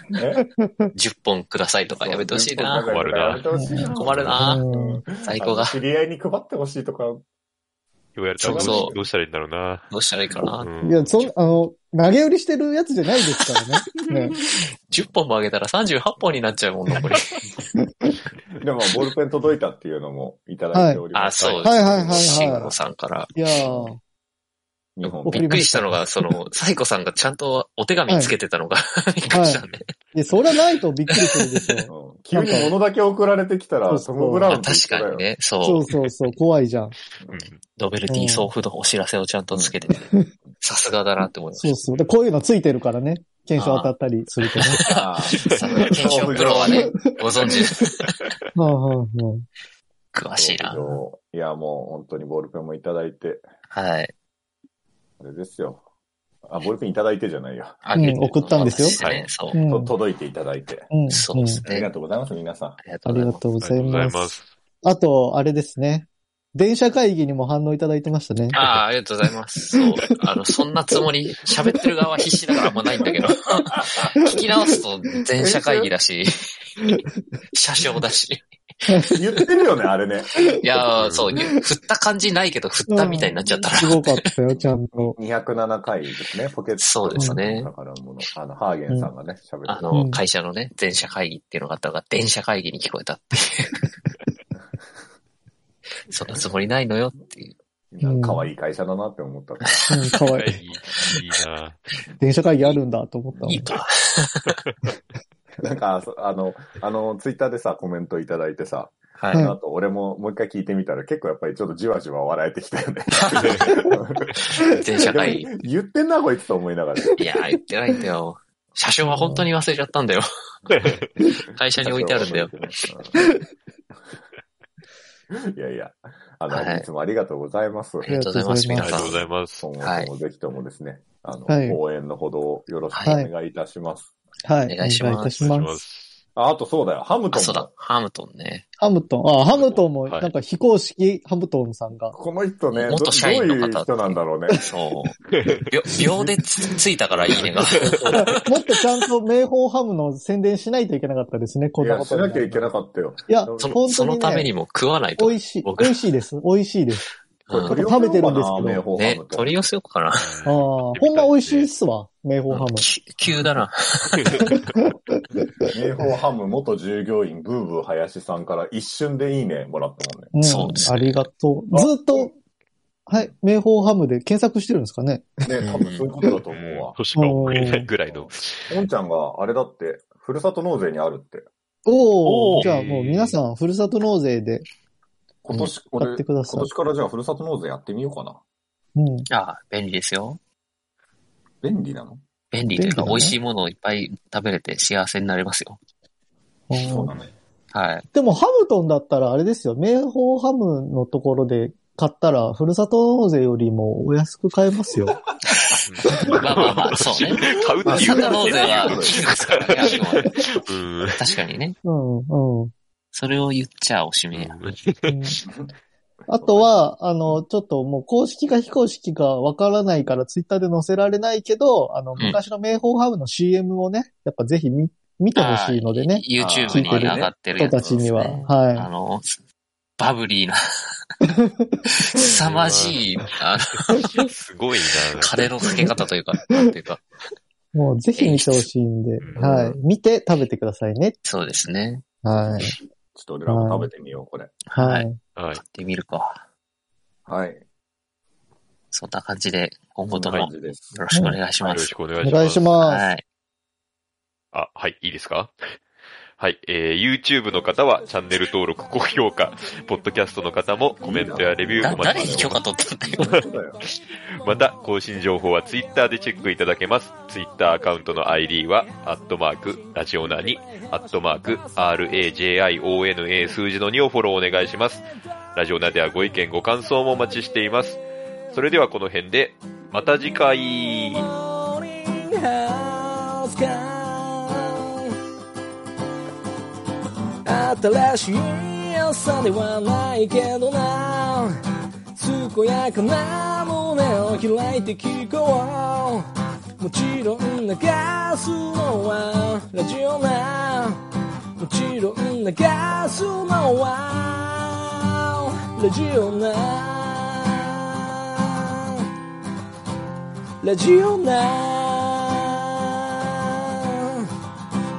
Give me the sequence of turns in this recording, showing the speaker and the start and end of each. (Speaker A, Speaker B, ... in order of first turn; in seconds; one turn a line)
Speaker A: 0.1-0.5
Speaker B: 0.6-0.9
Speaker C: 0.9-2.9
Speaker A: 1.9-7.2
Speaker D: 2.9-3.5
Speaker B: 3.5-5.0
Speaker C: 4.0-4.6
Speaker D: 4.0-4.4
Speaker C: 5.2-5.8
Speaker D: 8.1-9.9
Speaker C: 8.4-8.9
Speaker A: 8.4-9.1
Speaker C: 9.9-10.7
Speaker D: 10.6-11.1
Speaker B: 10.8-14.3
Speaker C: 14.4-17.4
Speaker B: 17.8-18.1
Speaker A: 18.6-22.8
Speaker B: 20.7-21.0
Speaker C: 21.1-23.3
Speaker B: 21.6-22.7
Speaker B: 23.3-24.0
Speaker A: 24.9-25.7
Speaker C: 25.1-29.8
Speaker B: 25.3-26.0
Speaker B: 29.3-29.6
Speaker B: 30.1-32.7
Speaker C: 31.2-31.4
Speaker A: 31.9-35.2
Speaker B: 33.9-34.5
Speaker C: 34.5-36.3
Speaker B: 35.6-37.0
Speaker D: 37.3-37.6
Speaker C: 37.8-40.1
Speaker B: 38.1-38.5
Speaker A: 39.5-39.9
Speaker C: 40.6-41.8
Speaker B: 41.6-44.8
Speaker C: 43.6-43.9
Speaker C: 44.5-48.2
Speaker A: 44.8-47.5
Speaker D: 46.0-46.5
Speaker B: 46.7-47.1
Speaker B: 48.5-49.5
Speaker C: 50.1-51.0
Speaker A: 50.4-53.4
Speaker C: 53.7-54.1
Speaker A: 55.2-55.8
Speaker A: 56.5-57.8
Speaker C: 57.8-59.5
Speaker B: 57.9-59.0
Speaker D: 59.0-59.3
Speaker B: 59.5-59.9
Speaker A: 59.5-60.9
Speaker B: 60.9-61.6
Speaker C: 61.1-61.9
Speaker A: 61.6-62.8
Speaker C: 62.8-63.4
Speaker B: 63.0-68.6
Speaker D: 63.6-64.5
Speaker C: 68.5-76.3
Speaker B: 69.7-70.2
Speaker B: 70.9-71.9
Speaker B: 72.6-73.1
Speaker A: 73.7-74.1
Speaker B: 74.2-74.8
Speaker A: 75.4-75.9
Speaker C: 77.5-78.4
Speaker B: 78.8-79.2
Speaker A: 79.1-80.5
Speaker C: 80.6-84.2
Speaker D: 81.0-81.3
Speaker B: 81.3-81.6
Speaker B: 82.9-85.2
Speaker A: 84.6-89.9
Speaker C: 86.8-87.7
Speaker C: 89.7-93.8
Speaker B: 89.9-90.2
Speaker C: 96.1-97.6
Speaker A: 97.9-99.9
Speaker B: 98.0-98.5
Speaker C: 99.7-100.2
Speaker B: 99.9-100.6
Speaker D: 100.3-101.8
Speaker B: 102.2-103.7
Speaker A: 103.3-103.6
Speaker C: 103.5-104.6
Speaker A: 105.6-114.4
Speaker C: 109.2-109.5
Speaker C: 113.2-113.7
Speaker C: 114.6-115.5
Speaker A: 115.0-117.2
Speaker C: 117.2-120.2
Speaker B: 119.0-119.5
Speaker D: 120.7-121.1
Speaker C: 121.5-122.6
Speaker A: 121.8-123.2
Speaker A: 125.3-128.1
Speaker C: 126.5-126.9
Speaker C: 128.0-129.2
Speaker B: 128.1-129.0
Speaker D: 128.8-129.7
Speaker A: 129.6-134.1
Speaker C: 129.8-130.1
Speaker B: 131.5-131.8
Speaker C: 132.9-133.2
Speaker B: 133.0-133.3
Speaker B: 134.4-135.8
Speaker C: 134.7-135.5
Speaker D: 135.4-136.2
Speaker A: 136.3-137.7
Speaker C: 137.3-138.7
Speaker B: 138.8-142.2
Speaker D: 139.5-140.3
Speaker A: 142.1-144.6
Speaker C: 142.7-145.1
Speaker D: 145.3-145.7
Speaker C: 145.7-148.4
Speaker D: 147.1-148.3
Speaker A: 147.2-147.6
Speaker B: 147.8-152.7
Speaker A: 151.8-153.8
Speaker B: 153.3-154.5
Speaker C: 153.6-156.0
Speaker B: 155.2-157.1
Speaker C: 157.5-157.8
Speaker A: 157.5-159.6
Speaker B: 157.7-158.8
Speaker C: 158.9-160.3
Speaker D: 160.2-161.7
Speaker B: 160.4-162.9
Speaker C: 162.5-164.4
Speaker D: 164.1-164.7
Speaker B: 164.4-165.7
Speaker A: 165.7-170.3
Speaker B: 170.3-172.3
Speaker C: 170.4-171.3
Speaker A: 171.7-172.3
Speaker B: 173.1-175.4
Speaker A: 175.4-177.0
Speaker C: 175.6-176.1
Speaker D: 176.5-178.7
Speaker B: 177.1-177.9
Speaker A: 178.1-181.4
Speaker B: 181.8-184.7
Speaker C: 182.2-182.6
Speaker D: 182.6-183.4
Speaker A: 185.4-188.4
Speaker B: 186.0-186.7
Speaker B: 188.9-189.3
Speaker C: 189.3-190.4
Speaker A: 191.6-192.2
Speaker C: 192.5-195.8
Speaker B: 192.7-193.4
Speaker B: 196.7-197.1
Speaker A: 196.8-197.3
Speaker C: 197.7-198.1
Speaker B: 198.1-205.2
Speaker C: 205.5-205.8
Speaker D: 205.8-211.3
Speaker B: 206.1-206.4
Speaker C: 206.3-210.4
Speaker A: 207.3-209.9
Speaker C: 211.1-211.7
Speaker B: 211.8-212.7
Speaker C: 213.1-214.6
Speaker D: 214.3-215.2
Speaker B: 215.1-215.4
Speaker B: 216.3-228.9
Speaker A: 216.4-216.7
Speaker C: 225.3-229.4
Speaker A: 226.4-228.0
Speaker C: 230.0-230.6
Speaker B: 231.2-232.2
Speaker C: 232.1-234.1
Speaker D: 232.2-235.9
Speaker C: 235.2-237.0
Speaker B: 237.7-241.2
Speaker C: 238.2-238.7
Speaker A: 239.4-239.8
Speaker C: 241.2-242.0
Speaker B: 242.2-242.7
Speaker A: 243.1-244.5
Speaker B: 243.5-243.9
Speaker C: 244.7-246.4
Speaker B: 244.7-245.2
Speaker D: 245.3-245.6
Speaker A: 247.2-247.6
Speaker C: 248.9-251.9
Speaker A: 250.1-250.9
Speaker B: 251.1-251.4
Speaker D: 251.6-252.7
Speaker B: 252.2-253.0
Speaker C: 252.8-253.2
Speaker D: 254.5-255.6
Speaker D: 256.4-262.6
Speaker A: 261.0-263.8
Speaker C: 261.8-263.4
Speaker D: 263.1-278.0
Speaker E: 270.4-271.4
Speaker D: 278.5-281.2
Speaker E: 281.0-285.1
Speaker E: 287.4-291.5
Speaker E: 292.1-296.2
Speaker E: 296.8-301.0
Speaker E: 301.6-309.1
Speaker E: 310.6-314.2